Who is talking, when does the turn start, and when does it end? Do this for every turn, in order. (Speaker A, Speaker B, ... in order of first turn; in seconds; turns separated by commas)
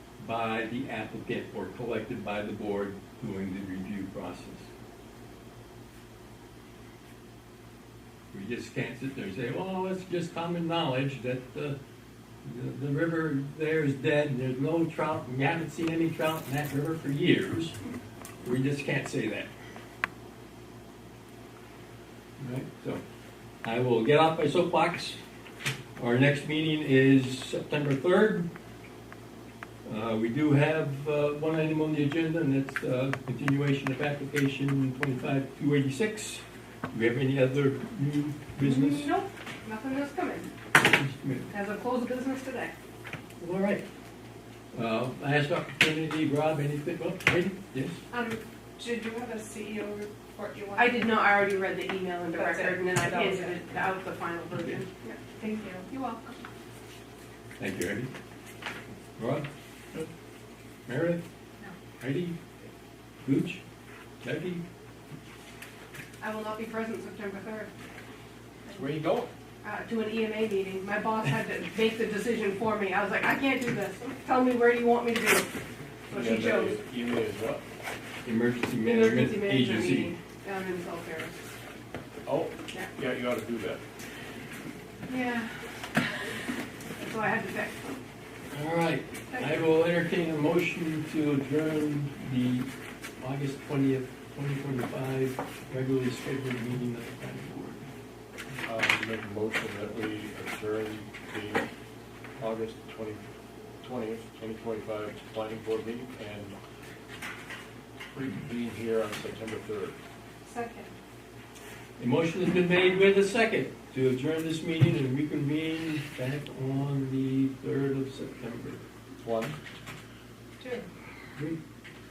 Speaker A: 0.2-4.7, Speaker A: 8.3-11.8, Speaker A: 12.4-17.8, Speaker A: 18.4-19.5, Speaker A: 22.4-23.0, Speaker A: 23.6-25.2, Speaker A: 26.0-28.5, Speaker A: 29.9-39.1, Speaker B: 38.6-40.5, Speaker A: 40.8-41.5, Speaker B: 41.5-42.8, Speaker A: 43.4-43.9, Speaker A: 44.7-48.0, Speaker C: 48.1-51.3, Speaker B: 50.8-55.2, Speaker C: 52.3-53.8, Speaker C: 55.4-56.4, Speaker A: 57.6-58.1, Speaker A: 59.2-59.5, Speaker A: 60.9-61.2, Speaker A: 62.0-62.4, Speaker A: 63.2-63.6, Speaker A: 64.2-64.6, Speaker B: 66.2-67.7, Speaker D: 68.7-69.3, Speaker B: 69.6-75.5, Speaker B: 76.1-76.8, Speaker D: 76.1-77.6, Speaker A: 78.2-80.1, Speaker B: 78.8-81.4, Speaker D: 82.3-83.8, Speaker B: 85.1-85.5, Speaker B: 87.0-88.0, Speaker A: 88.5-92.7, Speaker B: 89.3-89.6, Speaker A: 93.2-97.9, Speaker D: 98.6-101.7, Speaker D: 102.4-103.2, Speaker D: 103.8-106.6, Speaker D: 108.1-110.0, Speaker C: 110.5-110.9, Speaker A: 112.0-118.8, Speaker D: 119.2-119.5, Speaker C: 120.6-120.8